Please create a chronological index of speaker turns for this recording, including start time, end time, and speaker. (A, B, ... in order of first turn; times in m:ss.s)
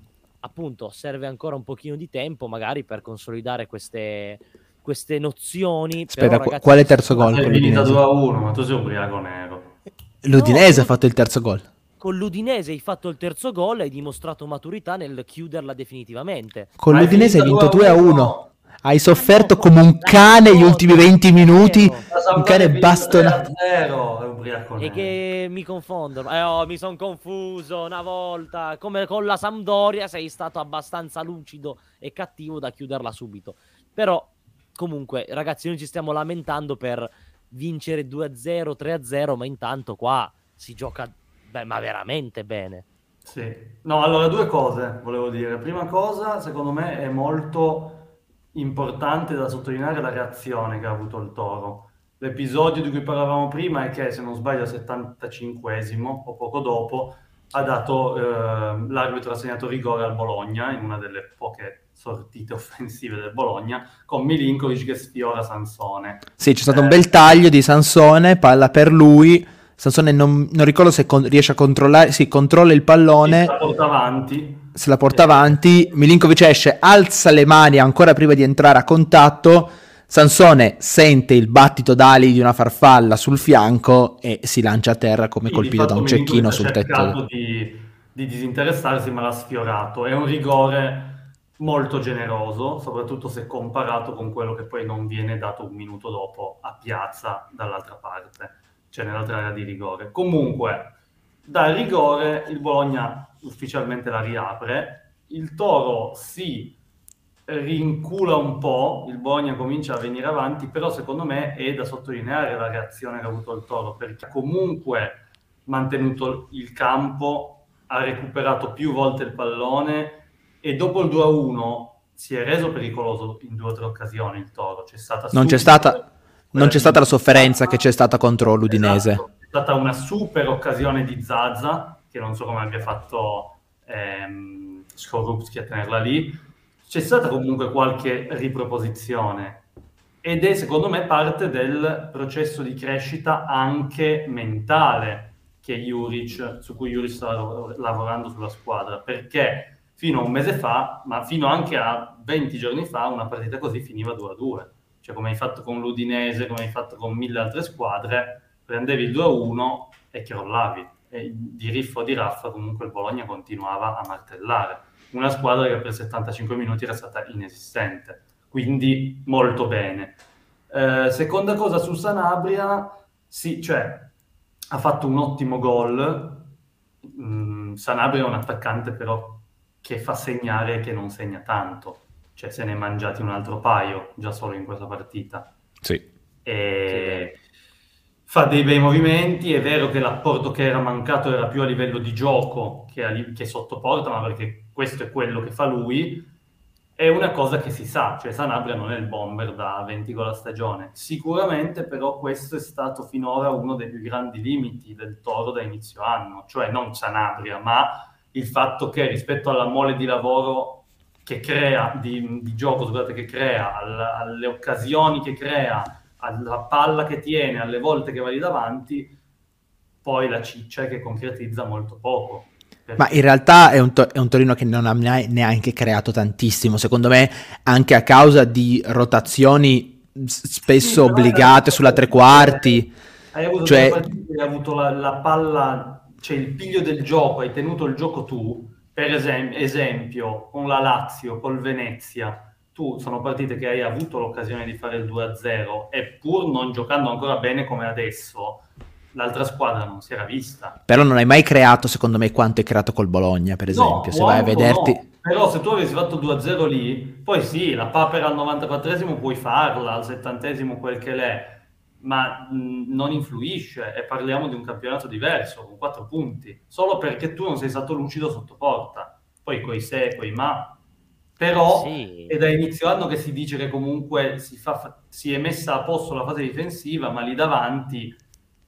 0:00.4-0:07.1 A
0:06.1-0:08.0 B
0:07.1-0:09.7 C
0:10.2-0:11.6 B
0:10.3-0:10.9 A
0:12.0-0:16.7 A
0:16.8-0:23.5 B
0:16.9-0:18.5 C
0:19.1-0:22.1 A
0:22.1-0:25.1 C
0:24.8-0:42.8 A
0:43.2-1:07.2 C
1:06.4-1:13.5 B
1:13.2-1:15.6 C
1:14.8-1:27.2 B
1:25.5-1:46.8 C
1:47.5-2:07.9 C
2:05.3-2:06.0 B
2:06.5-2:09.2 B
2:08.6-2:19.6 C
2:20.2-2:50.2 C
2:50.7-2:54.1 C
2:54.7-2:56.5 C
2:57.0-3:05.5 C
3:06.4-3:07.3 C
3:06.9-3:07.3 A
3:08.3-3:16.3 C
3:17.0-3:39.1 C
3:40.0-3:43.2 C
3:43.0-3:52.9 B
3:50.8-4:10.8 C
3:53.6-3:54.0 B
4:10.9-4:15.0 B
4:13.7-4:30.8 C
4:31.4-4:38.2 C
4:31.7-4:32.4 A